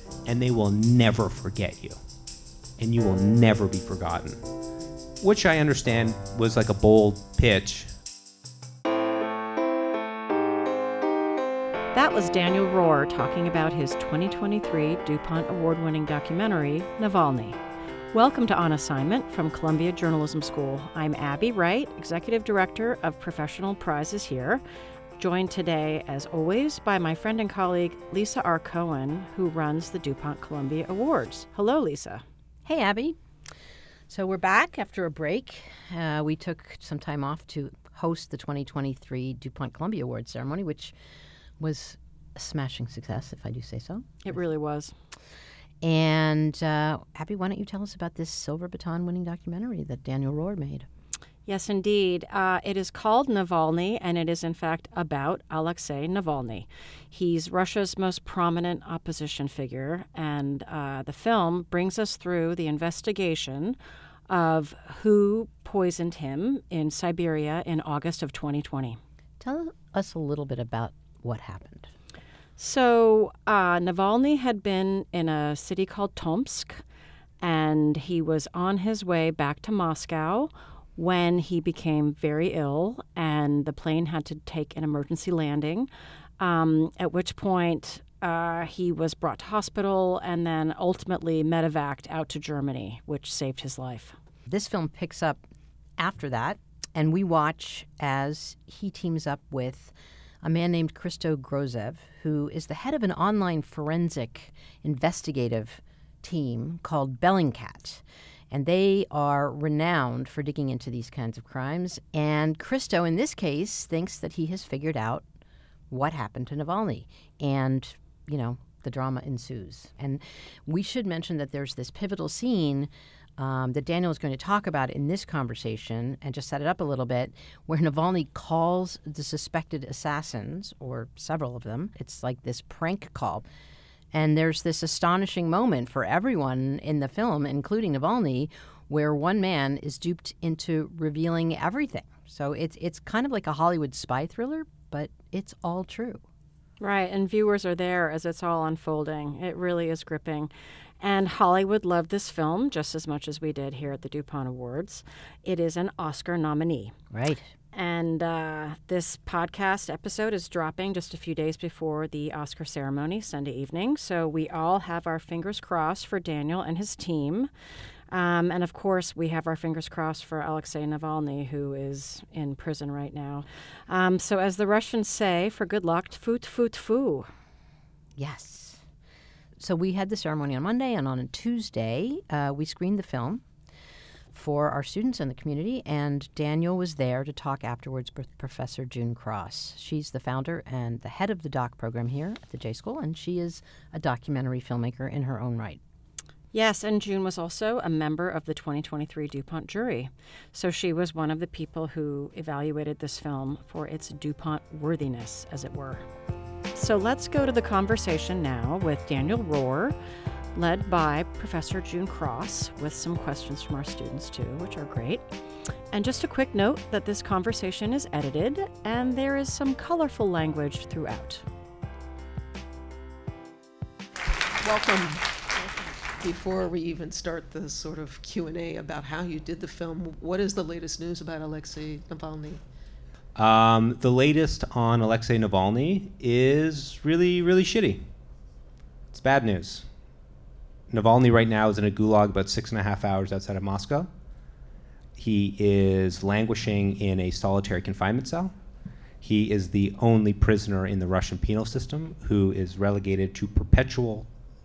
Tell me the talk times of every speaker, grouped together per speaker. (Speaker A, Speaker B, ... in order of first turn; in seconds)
Speaker A: 0.3-2.0, 2.8-4.4, 5.2-7.9, 233.4-238.0, 239.1-239.8, 240.9-244.1, 245.2-248.5, 249.2-254.3
Speaker B: 11.9-17.6, 18.1-24.6, 25.2-32.2, 44.2-44.9, 51.5-63.8, 64.3-69.0, 72.6-76.8, 77.4-94.2, 146.8-156.9, 157.7-167.5, 168.1-177.3, 196.5-206.1, 206.7-209.9, 210.6-215.2, 215.9-221.4
Speaker C: 32.6-33.2, 34.1-41.0, 41.6-44.1, 45.8-50.9, 69.4-71.9, 94.5-95.4, 96.0-115.2, 115.9-133.5, 134.1-146.2, 157.1-157.5, 178.2-178.8, 179.6-183.4, 184.3-195.8
Speaker D: 224.6-232.6